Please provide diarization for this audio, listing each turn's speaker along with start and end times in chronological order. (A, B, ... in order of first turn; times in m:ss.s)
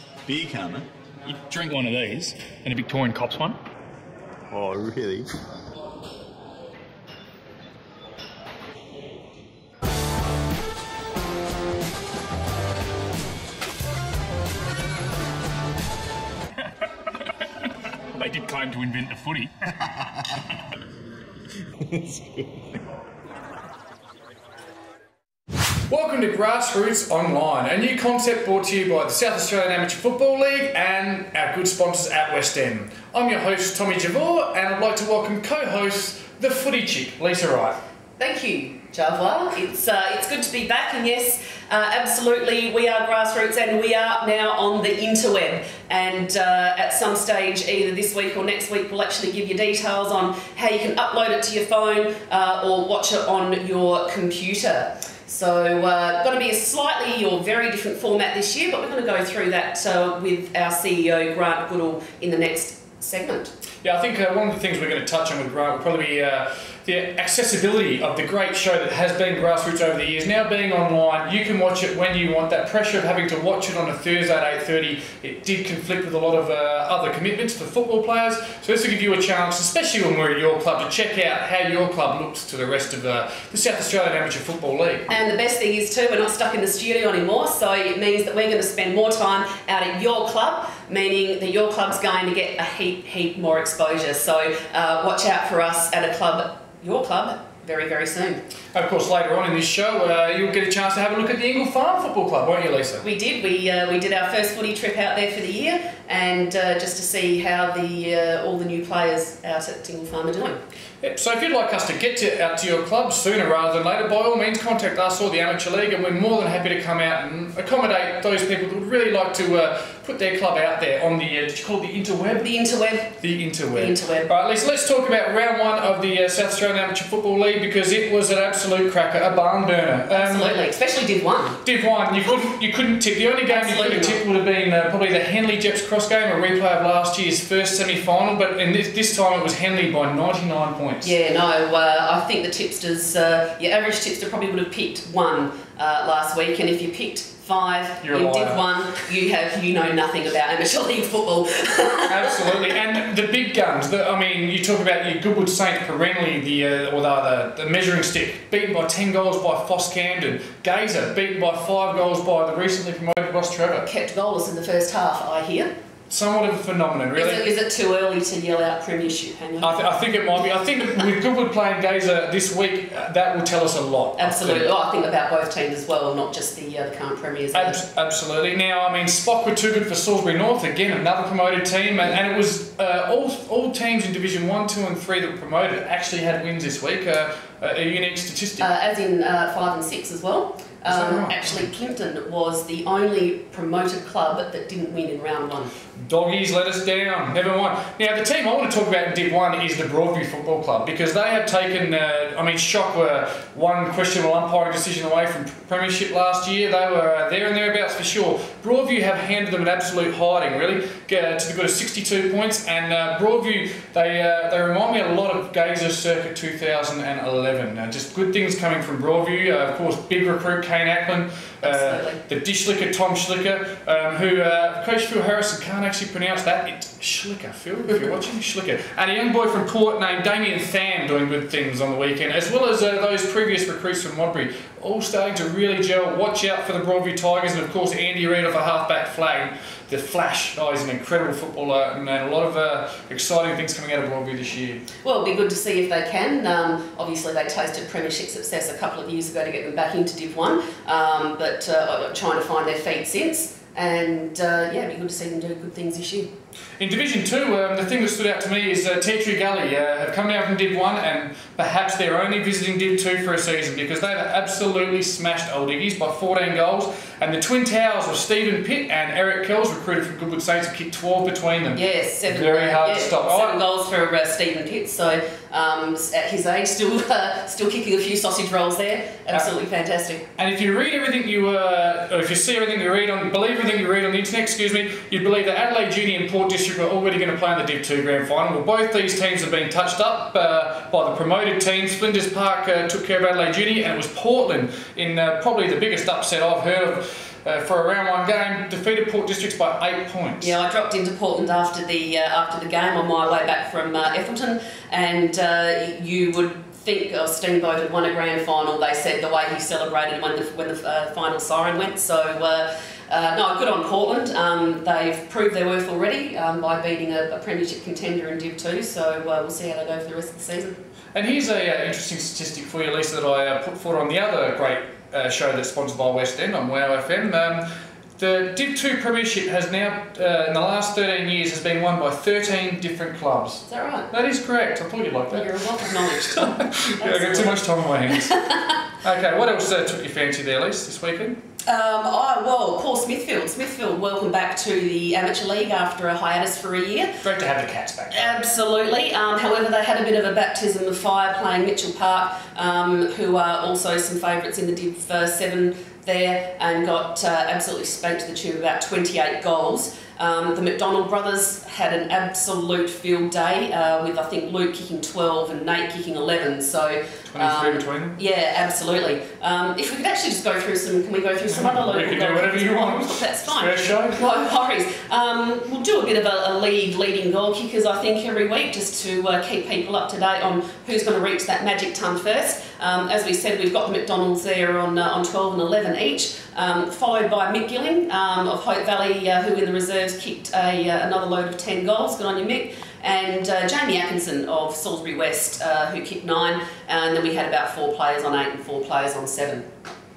0:00.2-0:03.6 A
0:04.5-0:05.3 A
0:18.1-0:19.5 A
0:25.9-0:37.8 B
0:38.2-1:03.5 C
1:03.8-1:25.1 B
1:25.1-1:38.4 C
1:38.7-1:43.0 B
1:43.0-1:50.6 C
1:51.0-2:02.5 B
2:02.4-2:03.1 C
2:03.2-2:10.5 B
2:03.7-2:04.3 C
2:10.1-2:11.6 C
2:11.6-2:21.1 B
2:13.5-2:14.2 C
2:21.0-2:32.5 C
2:28.0-2:28.6 B
2:32.1-2:43.9 B
2:43.8-2:45.7 C
2:46.1-2:47.5 B
2:47.1-2:49.8 C
2:49.6-2:54.7 B
2:54.2-2:57.8 C
2:57.5-3:08.7 B
3:08.6-3:15.7 C
3:10.8-3:11.7 B
3:16.0-4:04.8 B
3:41.6-3:42.2 C
4:05.0-4:16.3 C
4:16.8-4:33.6 B
4:31.7-4:40.2 C
4:40.4-5:00.5 B
5:00.4-5:20.8 C
5:21.1-5:27.7 B
5:28.2-5:38.4 B
5:33.6-5:34.1 C
5:35.3-5:38.8 C
5:39.0-5:41.4 B
5:41.7-5:47.2 C
5:47.2-5:48.4 B
5:48.1-6:39.7 C
6:07.3-6:08.2 B
6:11.5-6:14.2 B